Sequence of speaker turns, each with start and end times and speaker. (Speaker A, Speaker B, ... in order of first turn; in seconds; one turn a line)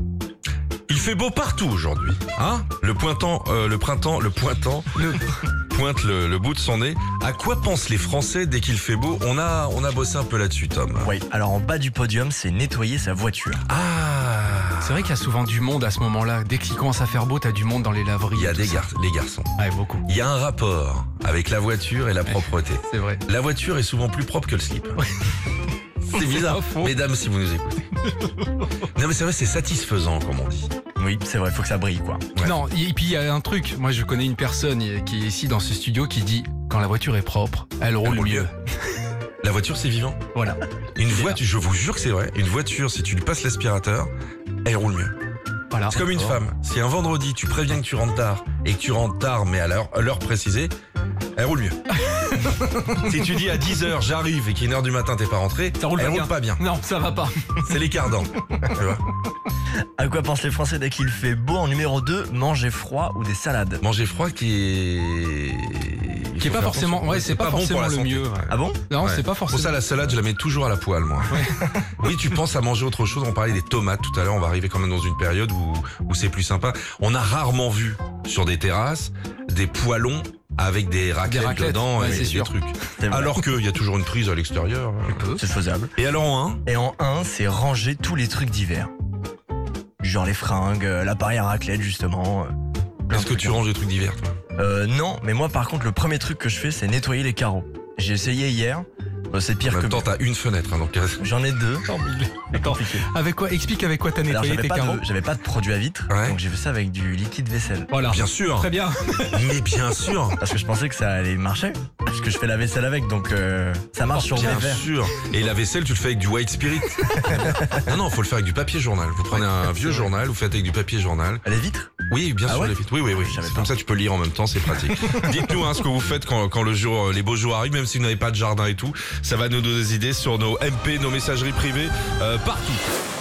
Speaker A: 0.9-4.9
Speaker B: 5.0-5.2
Speaker A: 5.7-11.1
Speaker C: 11.0-13.6
Speaker A: 13.7-15.1
Speaker B: 14.8-18.9
Speaker A: 18.3-19.5
Speaker B: 19.6-20.0
Speaker A: 20.1-25.0
Speaker B: 22.3-23.2
Speaker A: 26.1-27.9
Speaker B: 26.1-26.9
Speaker A: 28.9-30.7
Speaker C: 31.0-32.3
Speaker B: 32.4-38.5
Speaker A: 38.0-38.5
Speaker A: 39.4-40.2
Speaker B: 40.4-40.6
Speaker A: 41.0-44.1
Speaker A: 44.6-45.1
Speaker B: 45.7-46.0
Speaker A: 45.9-50.7
Speaker A: 51.4-51.8
Speaker B: 52.0-53.1
Speaker A: 52.9-56.6
Speaker B: 55.8-57.7
Speaker A: 57.6-59.0
Speaker C: 60.0-63.8
Speaker A: 63.8-85.3
Speaker B: 66.4-70.1
Speaker C: 68.5-68.8
Speaker B: 71.3-71.8
Speaker B: 81.2-82.5
Speaker C: 83.0-83.4
Speaker B: 85.1-85.5
Speaker C: 85.4-85.9
Speaker A: 86.0-86.6
Speaker C: 86.7-88.9
Speaker C: 90.0-92.5
Speaker C: 93.1-93.7
Speaker A: 93.1-94.3
Speaker C: 94.6-100.1
Speaker A: 99.7-101.2
Speaker C: 101.2-103.1
Speaker B: 102.4-105.0
Speaker C: 104.3-107.9
Speaker A: 106.1-106.4
Speaker B: 107.9-109.5
Speaker A: 108.1-108.7
Speaker A: 109.3-110.4
Speaker C: 110.4-114.8
Speaker B: 114.2-114.8
Speaker A: 114.3-121.4
Speaker C: 117.1-117.9
Speaker B: 119.3-120.1
Speaker C: 121.5-122.0
Speaker A: 122.1-132.9
Speaker C: 122.5-123.7
Speaker C: 124.9-125.3